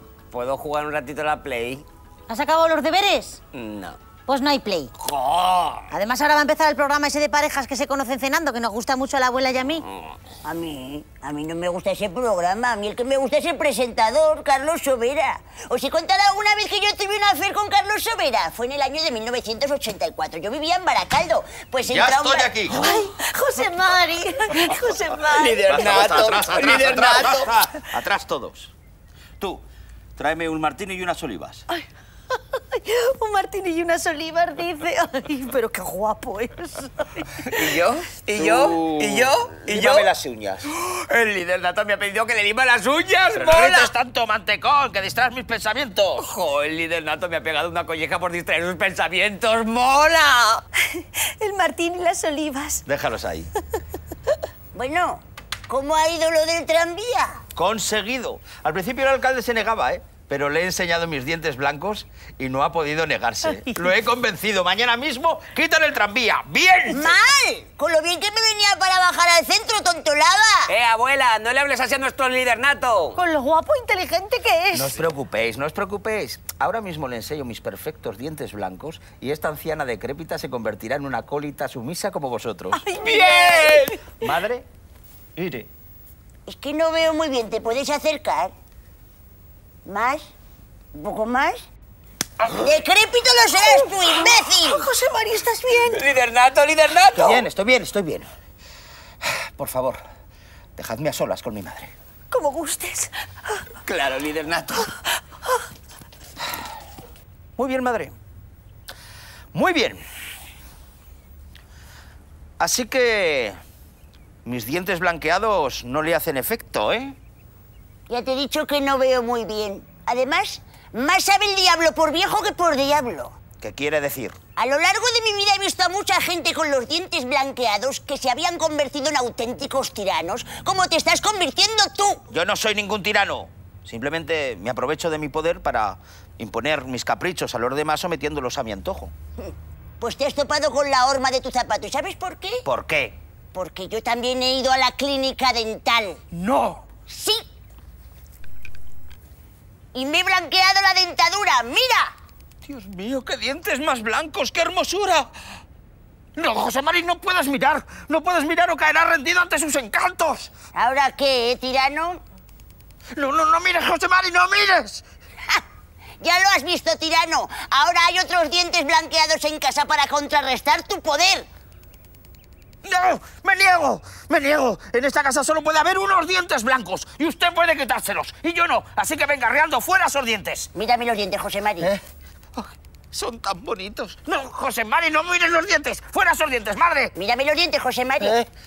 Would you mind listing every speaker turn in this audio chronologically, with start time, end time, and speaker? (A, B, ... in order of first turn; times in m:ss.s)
0:00.3-0:01.9 A
0:02.3-0:03.4 B
0:03.5-0:04.0 A
0:04.3-0:04.9 B
0:05.0-0:05.9 A
0:05.9-0:09.8 B
0:10.4-0:22.5 C
0:21.9-0:22.8 D
0:22.7-0:26.2 B
0:25.3-0:27.6 A
0:25.4-0:28.7 D
0:30.2-0:31.7 D
0:31.7-0:37.5 B
0:37.5-0:40.1 A
0:38.4-0:40.7 D
0:40.7-0:43.9 A
0:43.4-0:46.2 D
0:46.2-0:50.7 A
0:50.9-0:52.8 B
0:52.9-0:53.5 D
0:54.7-0:57.4 C
0:57.6-1:07.2 D
1:06.9-1:10.7 C
1:10.7-1:13.2 A
1:13.2-1:15.0 B
1:14.7-1:22.9 D
1:22.7-1:24.1 B
1:23.1-1:23.6 C
1:24.1-1:24.7 D
1:25.4-1:25.7 D
1:26.5-1:28.5 C
1:29.8-1:30.3 C
1:30.9-1:31.6 C
1:32.5-1:34.9 C
1:33.6-1:36.0 B
1:35.8-1:37.4 A
1:37.2-1:38.3 D
1:39.2-1:40.0 D
1:40.8-1:41.9 D
1:42.3-1:43.6 B
1:43.8-1:44.9 A
1:47.6-1:48.2 D
1:49.5-1:50.0 D
1:52.6-1:53.6 D
1:54.4-1:57.2 D
1:58.1-2:03.4 C
2:03.6-2:04.4 D
2:04.6-2:12.2 C
2:12.3-2:19.1 D
2:19.5-2:22.6 C
2:22.6-2:23.2 D
2:23.5-2:26.2 C
2:26.3-2:26.8 D
2:27.1-2:27.5 C
2:29.9-2:32.1 C
2:32.6-2:35.3 D
2:36.4-2:40.5 D
2:40.7-2:42.2 C
2:43.1-2:45.0 D
2:46.2-2:51.5 C
2:52.8-3:00.7 D
3:00.7-3:02.0 C
3:02.6-3:07.1 D
3:07.1-3:08.4 C